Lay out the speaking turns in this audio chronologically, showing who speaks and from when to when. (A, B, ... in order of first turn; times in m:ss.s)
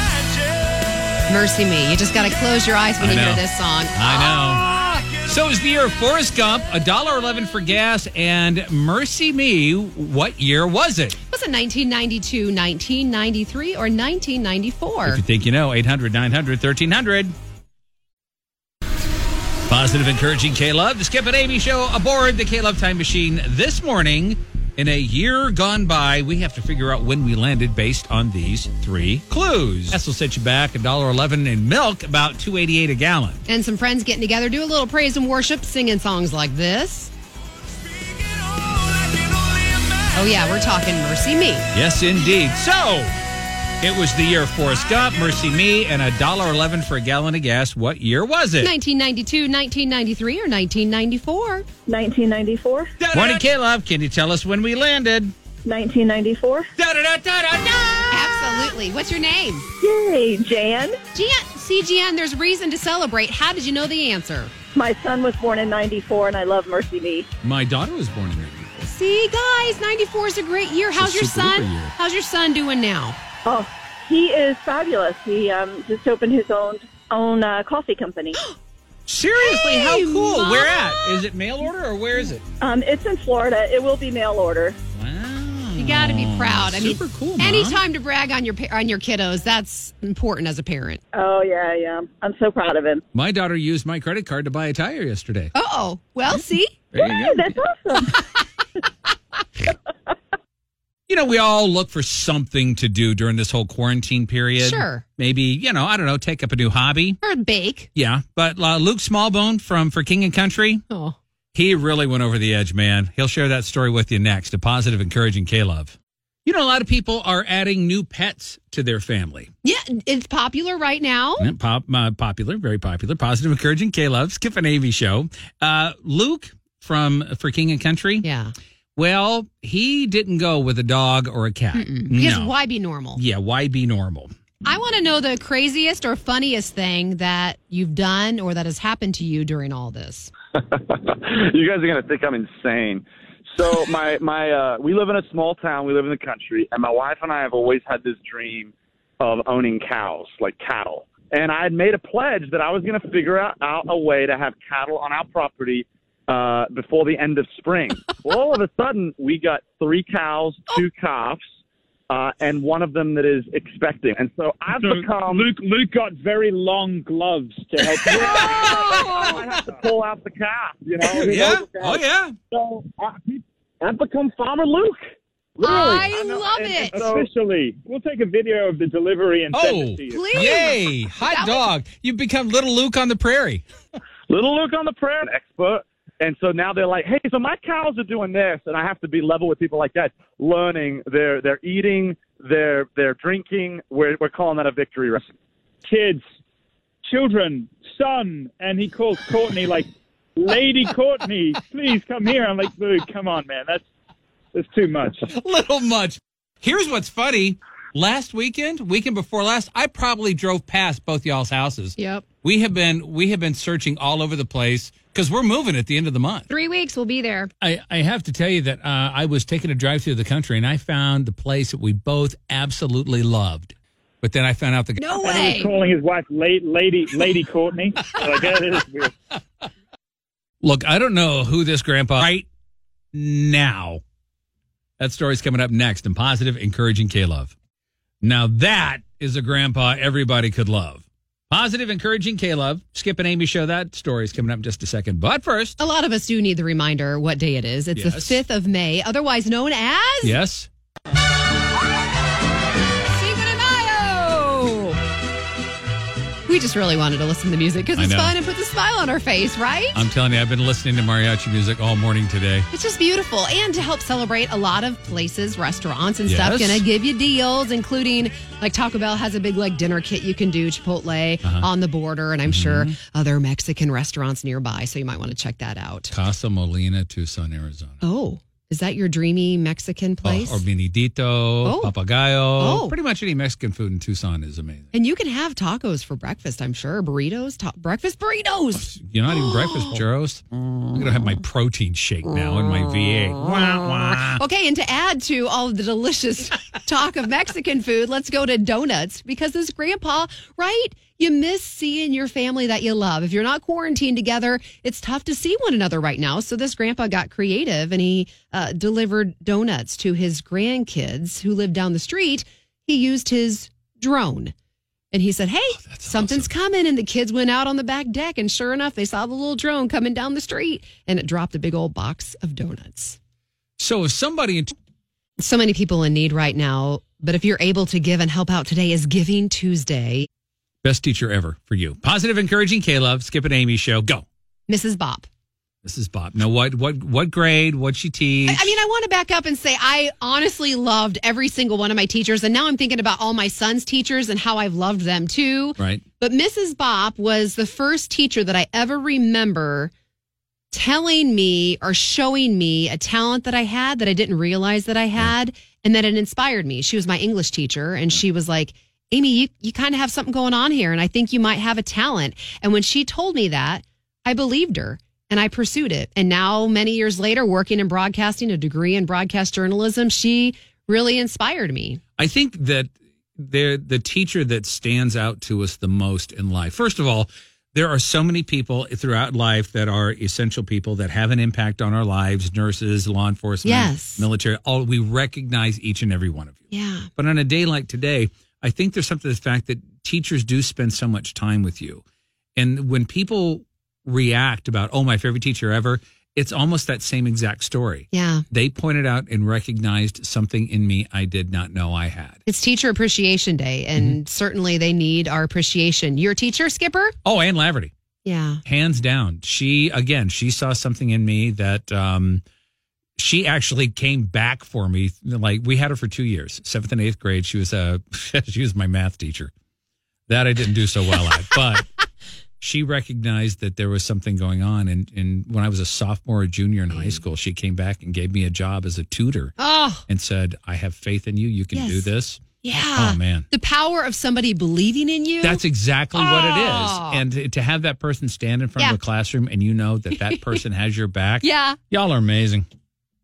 0:01.3-0:05.1 A
0:03.0-0:03.4 B
0:04.0-0:11.2 B
0:11.3-0:15.2 A
0:15.1-0:17.4 B
0:19.7-0:33.4 B
0:33.5-0:37.1 A
0:40.1-0:41.7 A
0:41.7-0:43.2 B
0:43.8-0:48.7 B
0:48.6-0:51.7 A
0:51.9-0:53.0 C
0:53.0-0:55.3 B
0:55.6-0:56.7 C
0:56.8-0:58.2 B
0:58.1-0:59.7 A
0:59.8-1:01.0 C
1:01.1-1:04.5 A
1:04.8-1:07.3 C
1:07.4-1:08.7 B
1:08.8-1:13.2 A
1:11.0-1:11.9 B
1:13.4-1:18.4 C
1:19.1-1:22.4 B
1:19.4-1:21.2 A
1:22.6-1:24.8 C
1:25.0-1:27.8 B
1:25.8-1:31.0 A
1:31.1-1:33.0 C
1:33.1-1:35.5 B
1:35.5-1:36.8 A
1:36.9-1:37.6 B
1:37.0-1:38.2 C
1:41.1-1:47.2 B
1:44.6-1:45.0 A
1:47.2-1:47.9 A
1:48.0-1:50.8 B
1:50.9-1:51.2 A
1:51.5-1:59.5 B
1:59.6-2:01.5 A
2:01.4-2:08.3 B
2:08.2-2:08.6 A
2:09.0-2:12.5 B
2:11.7-2:13.2 A
2:13.2-2:14.3 B
2:14.6-2:20.3 A
2:20.5-2:41.4 D
2:42.1-2:45.5 D
2:44.8-2:49.9 E
2:48.1-2:51.7 D
2:48.2-2:49.6 B
2:48.6-2:49.4 A
2:51.0-2:51.9 E
2:51.2-2:52.4 B
2:52.5-2:52.8 E
2:53.8-2:55.0 E
2:55.6-2:57.3 D
2:55.6-3:00.5 E
2:55.6-2:57.1 A
2:59.5-3:03.6 B
3:00.1-3:01.7 A
3:04.3-3:15.2 D
3:15.8-3:16.2 E
3:17.1-3:23.8 E
3:24.5-3:25.3 E
3:25.3-3:36.5 B
3:32.0-3:32.2 A
3:36.5-3:37.5 A
3:37.6-3:45.1 B
3:45.0-3:45.8 A
3:45.2-3:49.2 E
3:50.6-3:52.5 B
3:53.1-3:54.0 B
3:55.0-3:57.5 B
3:58.2-4:05.8 B
4:05.8-4:10.4 A
4:08.0-4:08.4 B
4:10.2-4:10.7 B
4:13.1-4:15.0 A
4:16.5-4:20.0 A
4:18.0-4:18.3 B
4:19.9-4:22.7 B
4:22.7-4:36.1 A
4:26.3-4:26.8 B
4:32.5-4:33.0 B
4:36.1-4:38.0 B
4:38.0-4:40.6 A
4:40.2-4:44.9 B
4:41.6-4:41.9 A
4:42.6-4:43.0 A
4:44.9-4:50.0 A
4:48.8-4:54.4 B
4:54.4-5:14.5 A
5:15.1-5:23.2 A
5:15.8-5:16.5 B
5:23.8-5:24.7 B
5:25.4-5:30.3 A
5:30.8-5:34.3 B
5:34.7-5:35.3 A
5:35.8-5:38.7 B
5:38.5-5:49.9 A
5:50.7-6:12.0 A
6:12.2-6:26.6 B
6:23.6-6:24.2 A
6:26.7-6:27.1 A
6:27.2-6:32.0 B
6:32.6-6:42.4 B
6:38.1-6:38.4 A
6:42.5-6:47.2 A
6:47.2-6:47.9 B
6:48.2-6:48.6 A
6:48.6-6:52.4 B
6:53.2-6:59.5 B
7:00.3-7:01.9 B
7:02.6-7:09.5 B
7:06.9-7:07.2 A
7:09.6-7:10.1 A
7:10.1-7:13.5 B
7:11.7-7:12.1 A
7:12.6-7:15.6 A
7:15.4-7:22.7 B
7:16.2-7:17.2 A
7:20.1-7:20.6 A
7:21.4-7:21.8 A